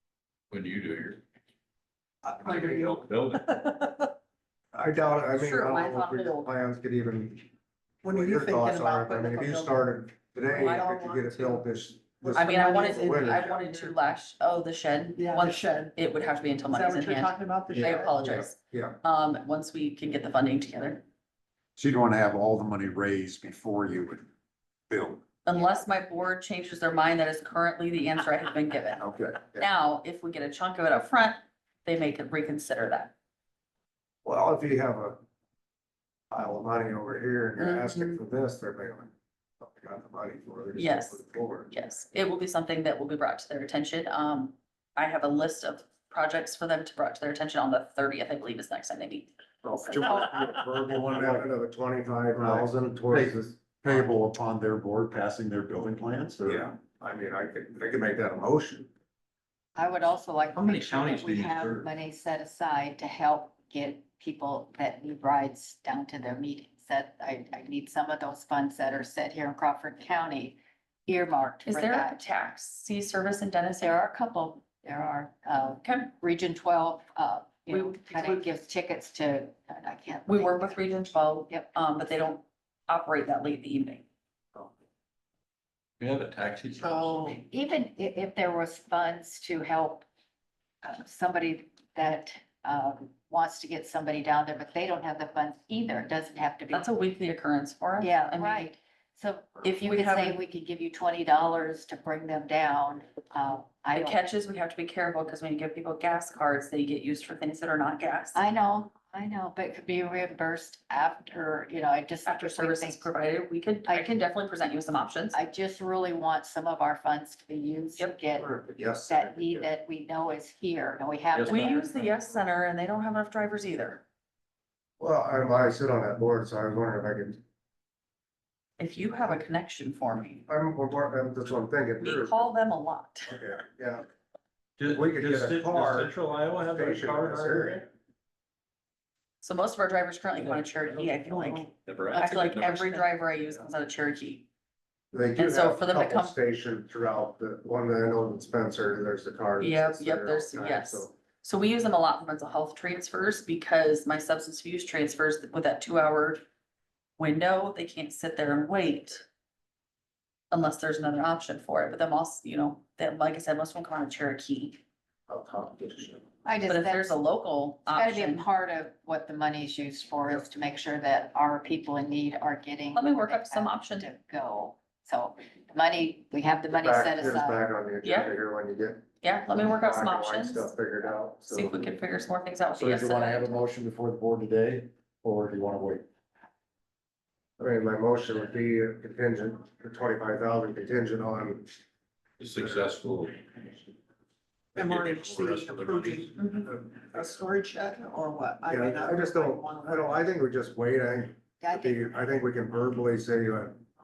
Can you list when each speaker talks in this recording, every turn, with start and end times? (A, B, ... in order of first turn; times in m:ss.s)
0:00.5-0:01.2 A
0:02.3-0:03.5 A
0:02.4-0:04.1 B
0:04.7-0:07.5 C
0:05.3-0:06.5 D
0:08.0-0:09.9 B
0:08.1-0:13.5 C
0:10.5-0:11.7 B
0:10.5-0:10.9 D
0:12.2-0:14.0 B
0:12.4-0:21.0 D
0:15.2-0:16.0 B
0:16.7-0:18.4 B
0:17.7-0:19.0 C
0:21.8-0:24.3 E
0:24.9-0:25.2 E
0:25.4-0:33.1 D
0:29.0-0:29.4 E
0:34.2-0:35.2 C
0:36.3-0:41.7 C
0:37.6-0:38.2 D
0:40.8-0:50.3 D
0:49.7-0:51.5 E
0:50.0-0:54.1 C
0:52.4-0:56.7 E
0:56.4-0:58.9 C
0:59.8-1:12.3 F
1:00.5-1:01.9 A
1:11.7-1:14.0 D
1:13.8-1:21.8 F
1:15.8-1:16.1 D
1:17.7-1:18.5 D
1:20.3-1:24.0 D
1:26.0-1:27.1 A
1:26.8-1:30.0 F
1:30.8-1:36.9 F
1:36.7-1:38.7 D
1:38.0-1:44.2 F
1:39.6-1:40.4 D
1:43.9-1:48.4 D
1:48.3-1:53.1 F
1:52.3-1:55.4 D
1:53.9-1:54.2 F
1:55.3-2:02.1 F
1:58.4-1:59.7 C
2:01.3-2:01.7 A
2:01.4-2:04.0 D
2:02.0-2:02.4 C
2:05.0-2:07.4 C
2:08.8-2:10.5 D
2:10.5-2:12.5 C
2:12.0-2:13.3 D
2:13.3-2:14.1 C
2:14.8-2:17.9 A
2:14.9-2:17.8 C
2:19.4-2:24.4 D
2:20.4-2:23.0 A
2:22.2-2:22.6 F
2:25.1-2:31.1 C
2:25.4-2:26.3 D
2:29.6-2:36.4 D
2:37.2-2:39.2 D
2:40.5-2:44.8 D
2:45.3-2:46.3 C
2:46.4-2:47.2 F
2:46.7-2:48.5 D
2:47.9-2:57.7 F
2:52.9-2:54.1 D
2:56.8-2:59.0 C
2:58.0-2:58.3 D
2:59.2-3:00.7 D
2:59.6-3:01.9 C
3:01.5-3:03.6 D
3:02.8-3:06.0 E
3:07.6-3:11.7 C
3:12.4-3:13.4 A
3:12.6-3:12.9 C
3:14.8-3:16.4 A
3:14.8-3:20.3 B
3:16.4-3:16.7 D
3:18.7-3:23.8 C
3:21.6-3:22.3 F